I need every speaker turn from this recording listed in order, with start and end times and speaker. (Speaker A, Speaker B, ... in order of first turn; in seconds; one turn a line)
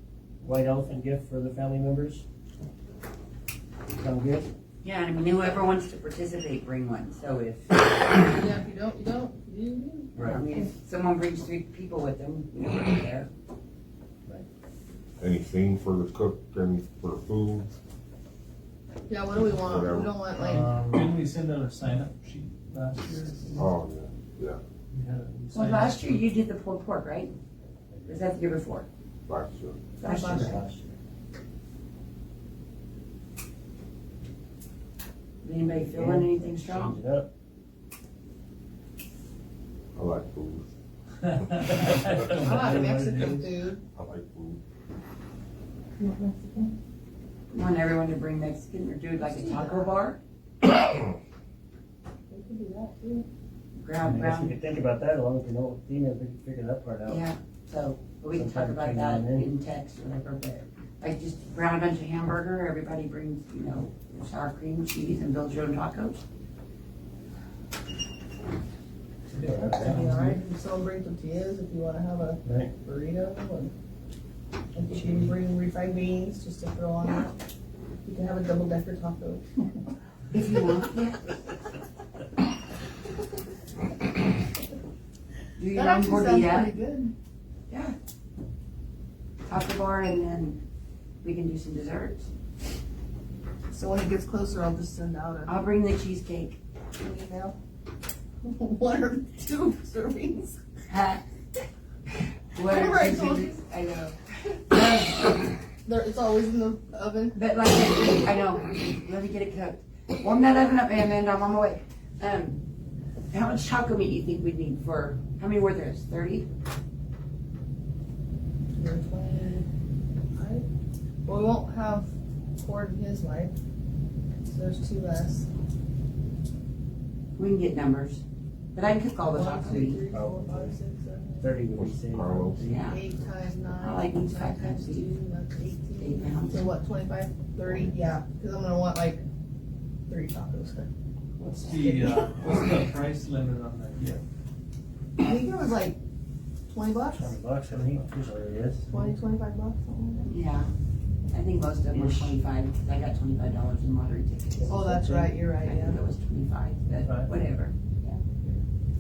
Speaker A: 0.4-2.2
Speaker A: 4.0-4.5
Speaker B: 4.8-8.2
Speaker C: 8.2-10.7
Speaker A: 10.2-10.4
Speaker B: 10.2-13.3
Speaker D: 15.2-17.7
Speaker C: 19.1-20.7
Speaker D: 19.4-20.2
Speaker E: 20.4-23.7
Speaker A: 20.5-21.1
Speaker D: 23.6-24.6
Speaker E: 24.9-26.2
Speaker B: 25.5-27.3
Speaker A: 27.9-28.2
Speaker B: 28.1-28.9
Speaker D: 29.3-29.8
Speaker B: 30.0-30.6
Speaker C: 30.0-30.6
Speaker A: 30.1-30.9
Speaker B: 35.4-37.0
Speaker A: 35.8-37.3
Speaker D: 40.0-40.7
Speaker E: 41.3-43.5
Speaker C: 42.3-43.8
Speaker D: 43.9-44.6
Speaker C: 46.0-46.7
Speaker B: 47.5-50.2
Speaker C: 49.2-50.0
Speaker C: 52.3-53.3
Speaker B: 53.8-54.6
Speaker A: 54.0-57.2
Speaker B: 57.1-66.2
Speaker A: 58.3-59.5
Speaker E: 69.3-70.4
Speaker C: 69.5-73.7
Speaker A: 72.4-72.7
Speaker C: 74.7-77.3
Speaker C: 78.0-79.8
Speaker B: 80.3-81.2
Speaker B: 85.6-86.8
Speaker C: 85.7-87.1
Speaker B: 87.7-88.0
Speaker B: 89.5-90.6
Speaker B: 91.2-92.3
Speaker C: 93.7-95.6
Speaker B: 95.5-96.6
Speaker C: 97.0-97.6
Speaker C: 98.4-100.6
Speaker B: 100.9-101.2
Speaker B: 102.5-104.2
Speaker C: 102.6-103.6
Speaker B: 104.7-105.5
Speaker C: 105.8-107.4
Speaker B: 107.3-112.6
Speaker B: 113.3-116.5
Speaker C: 118.8-119.7
Speaker C: 120.3-120.7
Speaker C: 121.3-123.6
Speaker C: 124.5-125.5
Speaker B: 127.4-128.2
Speaker B: 128.7-130.0
Speaker C: 129.2-131.6
Speaker A: 130.1-130.8
Speaker A: 131.4-132.9
Speaker D: 131.7-132.7
Speaker B: 132.6-133.0
Speaker C: 132.8-139.2
Speaker B: 133.8-135.1
Speaker B: 136.0-136.7
Speaker C: 140.1-140.9
Speaker E: 141.4-144.2
Speaker C: 145.2-146.0
Speaker C: 146.7-147.4
Speaker A: 147.1-148.9
Speaker C: 148.9-150.3
Speaker B: 150.3-150.7
Speaker B: 151.3-154.8
Speaker A: 151.9-152.4
Speaker A: 154.6-155.3
Speaker C: 154.7-156.0
Speaker B: 155.5-158.2
Speaker E: 157.0-157.3